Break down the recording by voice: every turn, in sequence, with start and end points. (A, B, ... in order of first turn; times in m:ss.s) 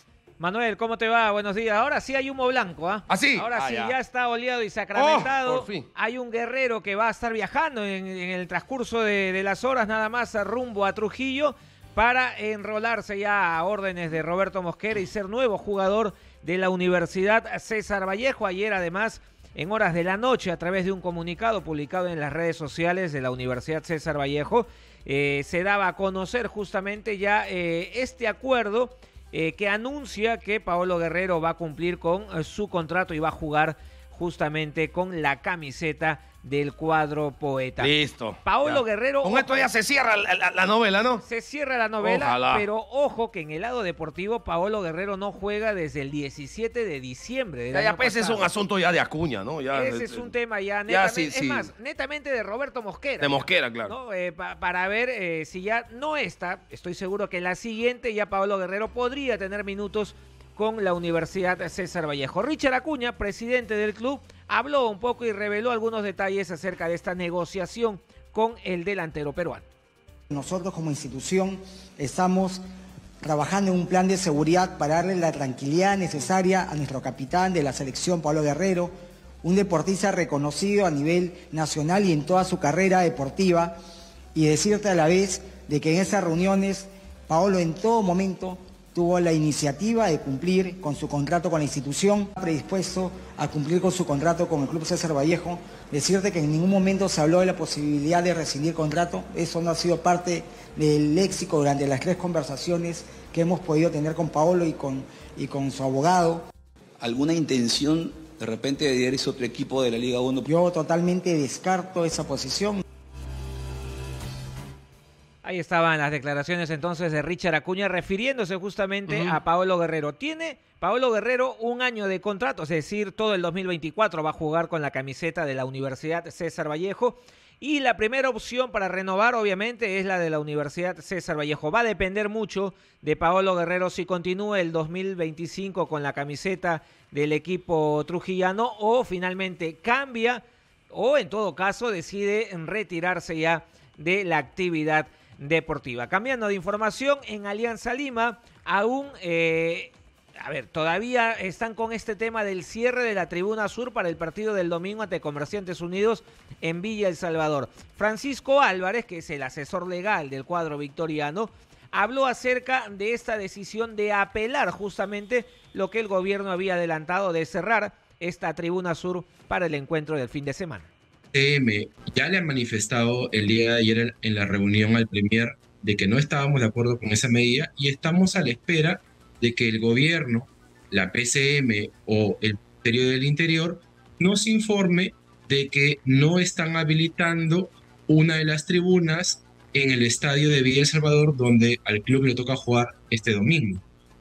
0:00.4-0:37.9 A
0:03.1-0:04.0 B
0:05.0-0:05.9 B
0:37.8-0:41.2 B
0:38.4-0:39.7 A
0:41.2-0:48.5 A
0:42.0-0:42.7 B
0:47.7-0:50.3 B
0:49.7-1:09.6 A
0:50.9-0:51.7 B
0:53.2-0:53.9 B
1:10.3-1:12.6 C
1:13.2-1:18.9 C
1:19.4-1:23.7 C
1:24.4-1:46.4 C
1:47.0-1:50.5 D
1:50.4-1:52.8 C
1:55.4-2:50.9 A
1:59.1-1:59.3 B
2:51.3-3:13.8 E